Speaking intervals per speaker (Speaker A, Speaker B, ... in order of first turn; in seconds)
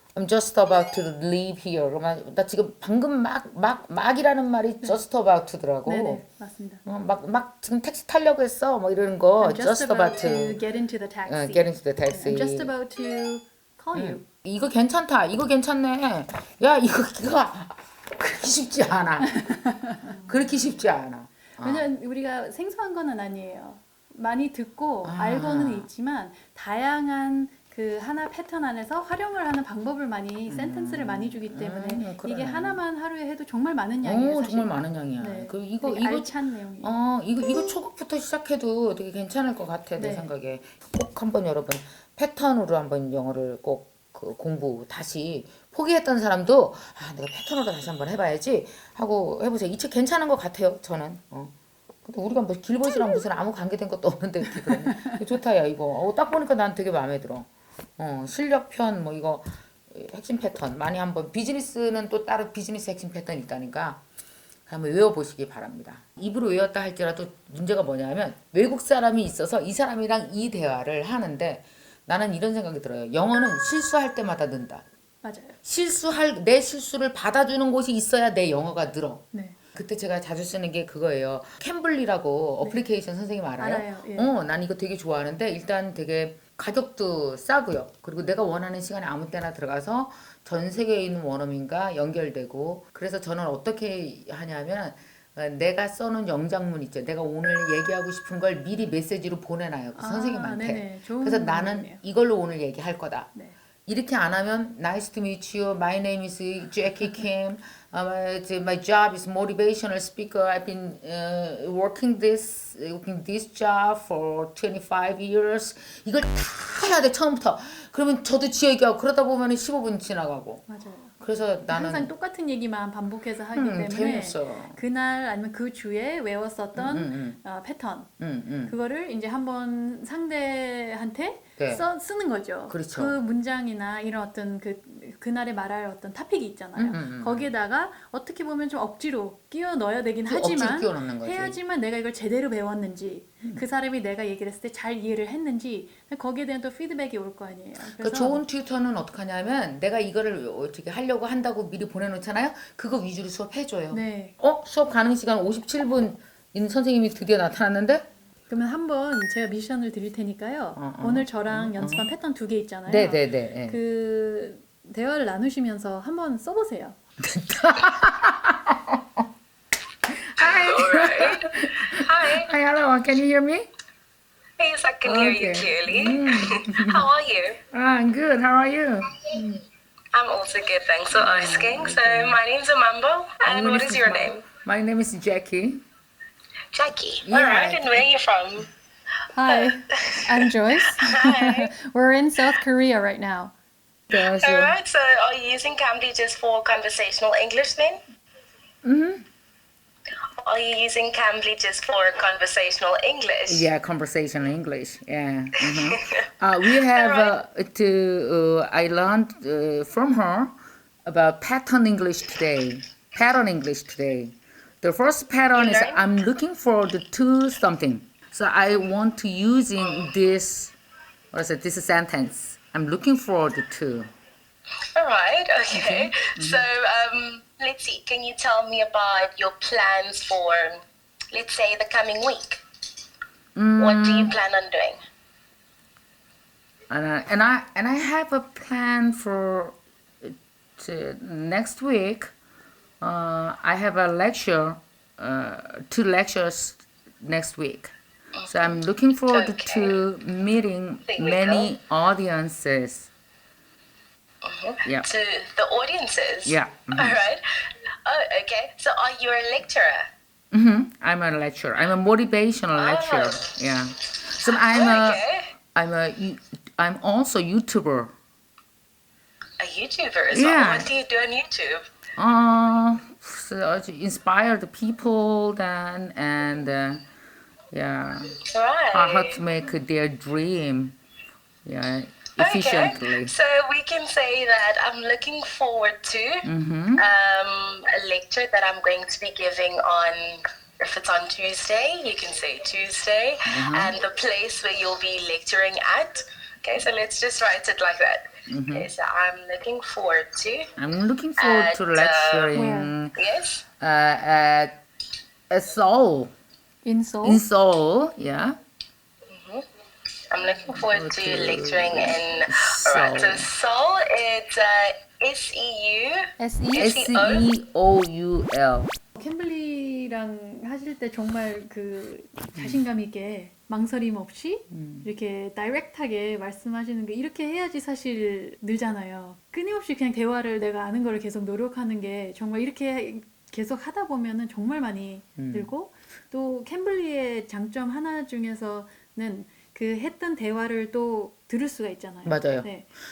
Speaker A: 0.1-6.2, 6.8-10.6, 11.2-12.7, 13.9-19.4, 20.0-21.9, 25.0-25.9, 30.5-32.8, 34.0-64.0, 64.7-74.8, 75.6-103.3, 103.8-120.6, 121.2-122.1, 123.5-124.8, 126.7-127.4, 128.2-128.8, 131.6-131.8, 132.7-133.2, 136.8-137.5, 140.3-141.6, 147.8-158.0, 160.8-162.1, 162.9-163.8, 167.2-169.2, 170.1-173.7, 175.0-177.1, 177.7-179.6, 181.1-182.4, 183.4-185.8, 187.2-188.0, 194.1-194.8, 198.8-199.2, 203.5-220.7, 221.3-224.1, 225.7-226.7, 233.6-234.4, 236.9-242.3, 243.0-253.1, 256.4-257.2, 260.5-265.2, 265.7-268.1, 270.3-270.9, 272.1-277.1, 277.7-281.0, 281.6-283.4, 286.4-287.0, 293.4-293.9, 298.5-298.9, 300.8-303.1, 303.8-304.8, 305.5-306.3, 307.2-308.6, 310.7-313.5, 316.8-318.9, 322.5-322.9, 324.7-325.1, 335.4-335.7, 342.2-342.7
Speaker B: 5.8-6.8, 9.4-14.2, 19.2-20.4, 21.6-37.0, 40.0-40.3, 54.6-55.2, 75.2-75.6, 79.3-79.6, 83.6-84.3, 99.9-102.0, 120.7-121.1, 121.7-128.1, 128.6-148.4, 153.9-154.4, 158.5-167.0, 189.3-193.5, 302.5-302.9, 306.8-307.4, 316.4-316.9, 319.1-342.9
Speaker C: 170.4-172.5, 174.6-177.6, 180.1-184.4, 186.7-188.7, 189.5-191.6, 194.1-198.0, 200.4-203.7, 205.6-206.0, 206.7-207.3, 215.5-216.1, 224.9-230.8, 231.3-232.6, 233.8-235.0, 248.4-248.6, 249.3-249.9, 251.1-251.7, 254.4-260.1, 262.7-263.6, 264.4-265.5, 269.6-271.9, 278.4-279.4, 282.4-286.4, 287.0-300.7, 301.4-302.6, 303.1-303.6, 309.3-309.6, 310.3-317.5